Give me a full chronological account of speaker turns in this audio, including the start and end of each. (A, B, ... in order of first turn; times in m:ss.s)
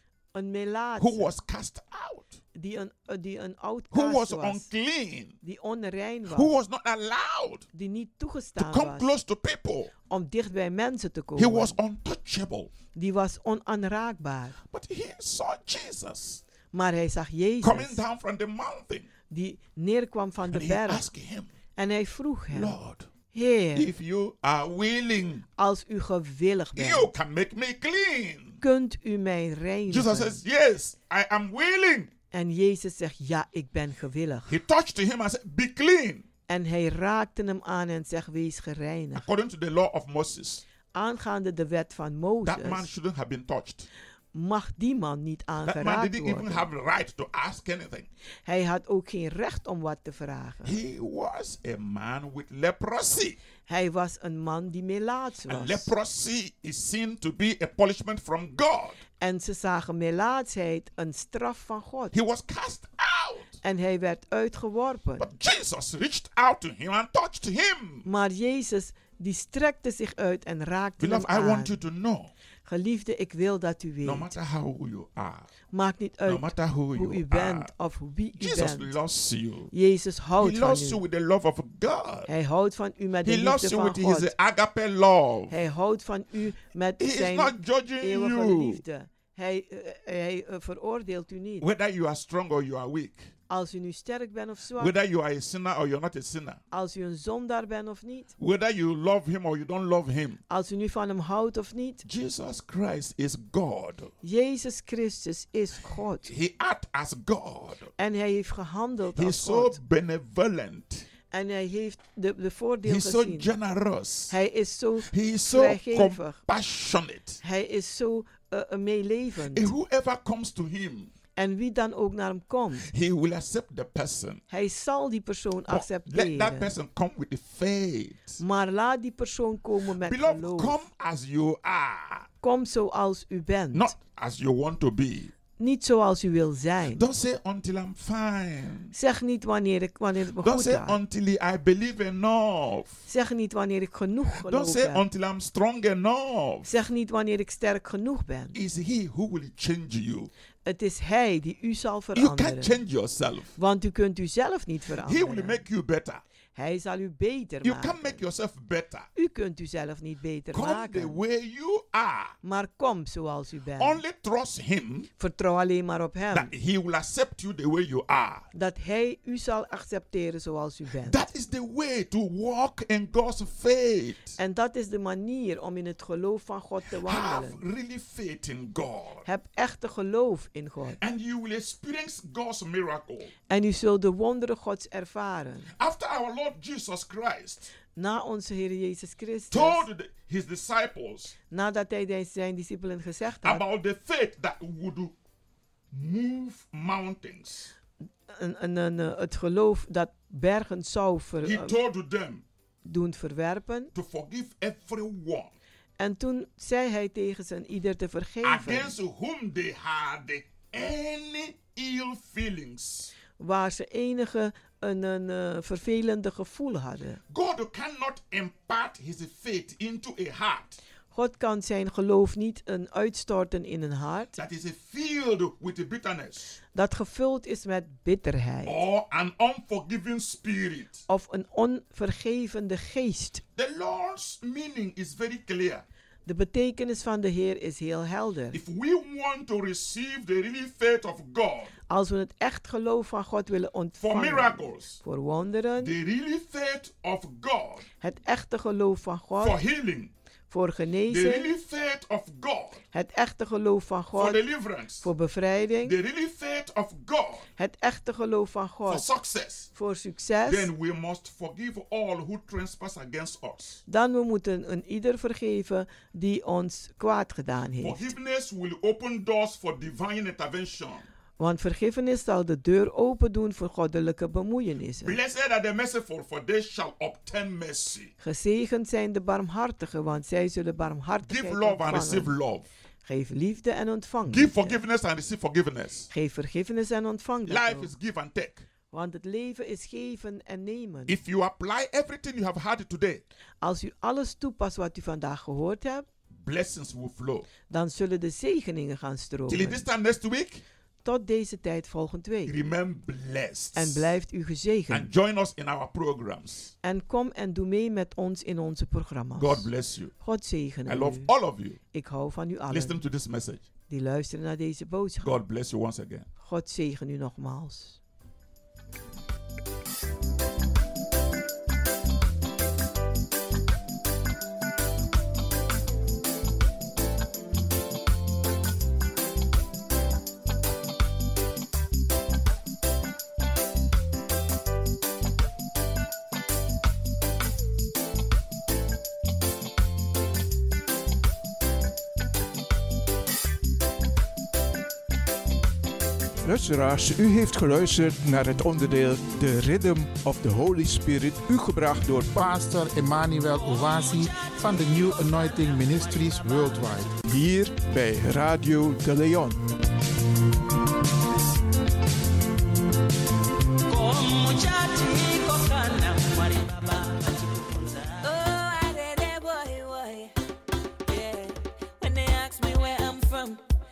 0:00.3-0:01.3 A
0:01.0-0:02.4 B
0:02.6-0:04.7 A
0:03.9-0:05.4 B
0:05.4-0:06.5 A
0:06.3-0:07.7 B
0:07.7-0:09.1 A
0:08.6-0:09.9 B
0:10.1-0:11.8 A
0:11.4-0:12.7 B
0:12.9-0:14.6 A
0:14.7-0:16.4 B
0:16.7-0:18.0 A
0:17.6-0:19.1 B
0:19.3-0:21.0 A
0:20.5-0:21.5 B
0:21.8-0:22.7 A
0:22.5-0:23.1 B
0:23.3-0:23.9 A
0:23.7-0:25.5 B
0:25.6-0:27.1 A
0:26.8-0:28.6 B
0:28.6-0:30.4 A
0:29.9-0:32.1 B
0:32.3-0:34.6 A
0:34.5-0:36.3 B
0:36.5-0:39.2 A
0:39.1-0:40.6 B
0:40.9-0:42.9 A
0:42.4-0:43.9 B
0:44.3-0:46.7 A
0:45.6-0:48.1 B
0:48.4-0:50.8 A
0:50.6-0:53.4 B
0:53.7-0:55.9 A
0:55.5-0:59.0 B
0:59.2-1:02.1 A
1:02.1-1:03.6 B
1:03.6-1:05.3 A
1:05.2-1:08.1 B
1:08.0-1:11.7 A
1:11.0-1:12.3 B
1:12.7-1:14.3 A
1:14.0-1:15.5 B
1:15.7-1:19.0 A
1:16.3-1:17.7 B
1:18.4-1:19.7 B
1:19.7-1:21.0 A
1:20.4-1:22.3 B
1:22.3-1:24.3 A
1:23.2-1:25.6 B
1:25.5-1:31.7 A
1:27.0-1:28.8 B
1:31.6-1:33.3 B
1:33.5-1:34.9 A
1:34.8-1:36.6 B
1:36.7-1:38.3 A
1:38.4-1:40.4 B
1:40.5-1:42.0 A
1:42.0-1:44.1 B
1:44.2-1:46.3 A
1:46.2-1:47.9 B
1:48.0-1:49.8 A
1:49.2-1:51.1 B
1:51.3-1:53.5 A
1:52.8-1:54.4 B
1:54.3-1:56.4 A
1:55.0-1:57.4 B
1:57.4-1:59.7 A
1:59.5-2:01.1 B
2:01.4-2:02.9 A
2:02.8-2:04.4 B
2:04.5-2:06.7 A
2:05.7-2:08.4 B
2:08.4-2:10.8 A
2:10.0-2:12.3 B
2:12.4-2:13.9 A
2:13.7-2:15.3 B
2:15.6-2:17.0 A
2:16.9-2:18.9 B
2:18.9-2:21.0 A
2:20.4-2:23.0 B
2:23.1-2:25.0 A
2:24.4-2:26.7 B
2:26.6-2:28.6 A
2:28.6-2:30.3 B
2:30.6-2:32.8 A
2:32.1-2:33.6 B
2:33.6-2:35.6 A
2:35.0-2:36.2 B
2:36.6-2:38.2 A
2:37.6-2:39.1 B
2:39.2-2:41.2 A
2:40.5-2:42.4 B
2:42.4-2:44.0 A
2:43.8-2:45.1 B
2:45.2-2:46.5 A
2:46.3-2:48.5 B
2:48.5-2:51.2 A
2:51.1-2:54.4 B
2:54.4-2:57.6 A
2:56.9-2:59.3 B
2:59.2-3:01.0 A
3:01.0-3:03.3 B
3:03.5-3:05.7 A
3:05.8-3:07.7 B
3:08.0-3:09.9 A
3:09.5-3:11.4 B
3:11.5-3:13.6 A
3:13.4-3:15.1 B
3:15.9-3:17.7 B
3:18.3-3:21.8 A
3:21.4-3:22.4 B
3:22.8-3:23.9 A
3:23.9-3:25.5 B
3:26.0-3:28.9 A
3:28.4-3:33.1 B
3:33.4-3:37.2 A
3:37.3-3:40.8 B
3:41.1-3:44.4 A
3:44.4-3:46.6 B
3:46.7-3:48.8 A
3:48.6-3:51.0 B
3:51.1-3:53.4 A
3:53.6-3:55.8 B
3:56.3-3:58.6 A
3:58.5-4:01.8 B
4:01.9-4:05.9 A
4:04.0-4:05.0 B
4:05.8-4:07.8 B
4:08.0-4:09.6 A
4:09.4-4:10.1 B
4:10.5-4:11.5 A
4:11.1-4:12.8 B
4:12.9-4:14.4 A
4:14.1-4:15.1 B
4:15.0-4:15.9 A
4:15.8-4:17.5 B
4:17.6-4:19.1 A
4:18.9-4:19.7 B
4:19.7-4:20.7 A
4:20.5-4:23.8 B
4:23.9-4:28.1 A
4:27.8-4:31.1 B
4:31.4-4:35.2 A
4:35.0-4:38.1 B
4:38.2-4:42.4 A
4:41.2-4:42.7 B
4:43.0-4:44.8 A
4:44.3-4:46.1 B
4:46.1-4:47.9 A
4:47.4-4:48.7 B
4:48.9-4:51.2 A
4:51.1-4:53.2 B
4:53.6-4:56.1 A
4:56.3-4:57.5 B
4:57.7-4:59.8 A
4:59.5-5:00.6 B
5:01.0-5:02.5 A
5:02.5-5:04.2 B
5:03.7-5:05.1 A
5:04.9-5:06.7 B
5:06.8-5:09.7 A
5:09.4-5:10.1 B
5:10.2-5:11.3 A
5:10.9-5:11.8 B
5:11.9-5:13.0 A
5:12.7-5:13.6 B
5:13.9-5:15.4 A
5:15.2-5:16.3 B
5:16.4-5:18.0 A
5:46.4-5:52.4 C
5:52.4-5:57.2 D
5:57.2-5:59.7 C
6:03.9-6:10.3 E
6:11.1-6:13.6 E